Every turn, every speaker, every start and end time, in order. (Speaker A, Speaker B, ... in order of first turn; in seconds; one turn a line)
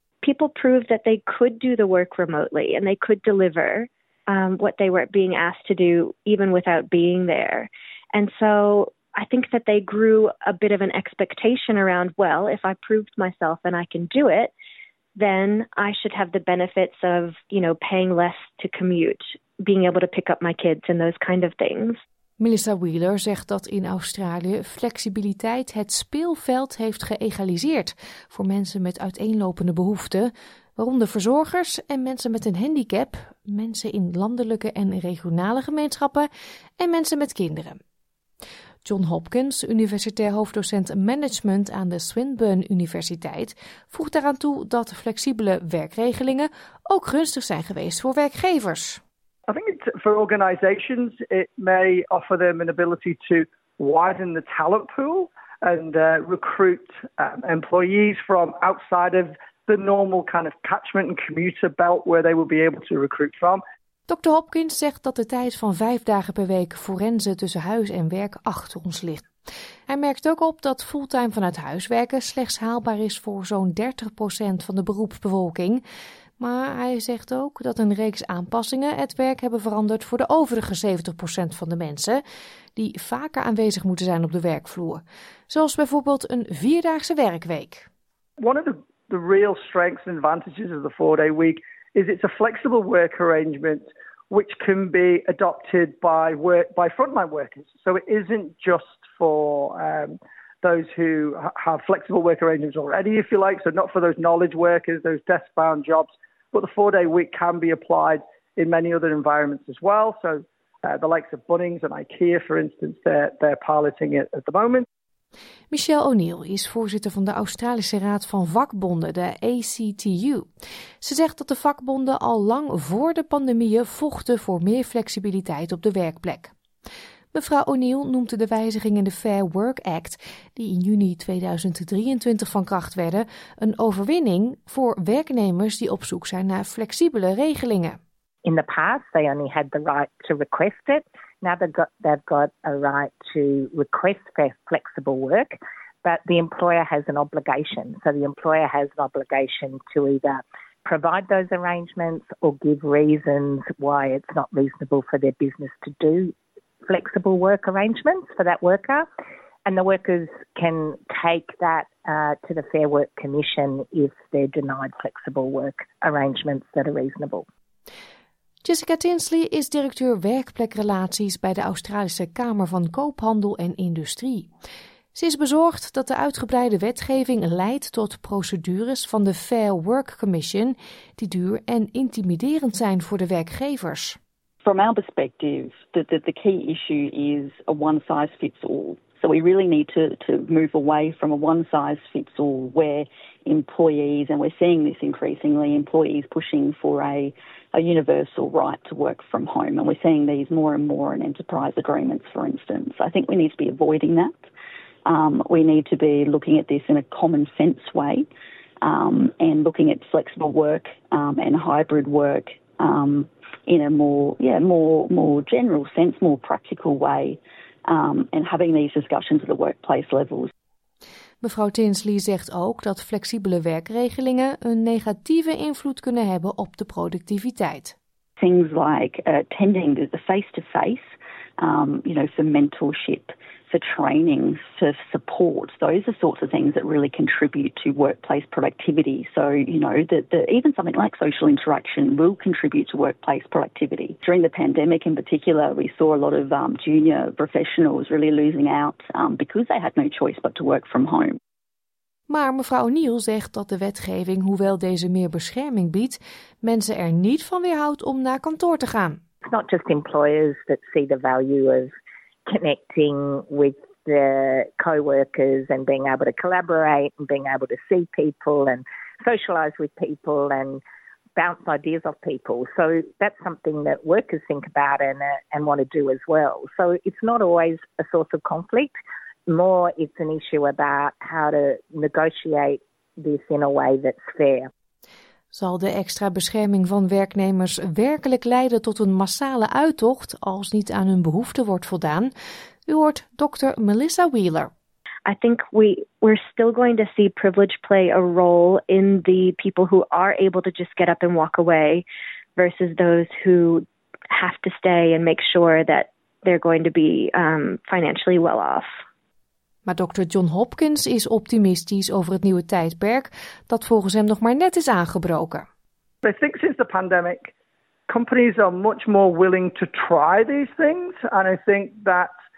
Speaker A: 0.2-14.5
Speaker A: 15.2-22.0
Speaker B: 22.4-36.3
Speaker B: 36.8-37.8
Speaker B: 38.9-49.0
Speaker C: 49.5-63.6
Speaker B: 64.1-69.3
Speaker B: 69.9-75.8
Speaker B: 76.4-82.2
Speaker B: 82.8-87.9
Speaker C: 88.4-114.8
Speaker B: 115.7-120.5
Speaker B: 121.0-126.5
Speaker B: 127.3-138.0
Speaker D: 138.4-156.3
Speaker D: 156.9-159.1
Speaker D: 159.7-167.5
Speaker B: 168.6-174.5
Speaker B: 175.2-184.2
Speaker E: 184.6-204.3
Speaker E: 205.1-208.3
Speaker E: 208.8-220.5
Speaker B: 221.4-228.0
Speaker E: 228.4-251.4
Speaker B: 252.3-259.2
Speaker D: 259.4-261.9
Speaker D: 262.5-270.8
Speaker D: 271.4-278.9
Speaker D: 279.5-284.7
Speaker B: 285.5-292.3
Speaker B: 292.9-294.7
Speaker A: 295.3-302.1
Speaker A: 302.6-308.9
Speaker B: 309.9-315.7
Speaker C: 316.2-317.5
Speaker C: 318.1-322.3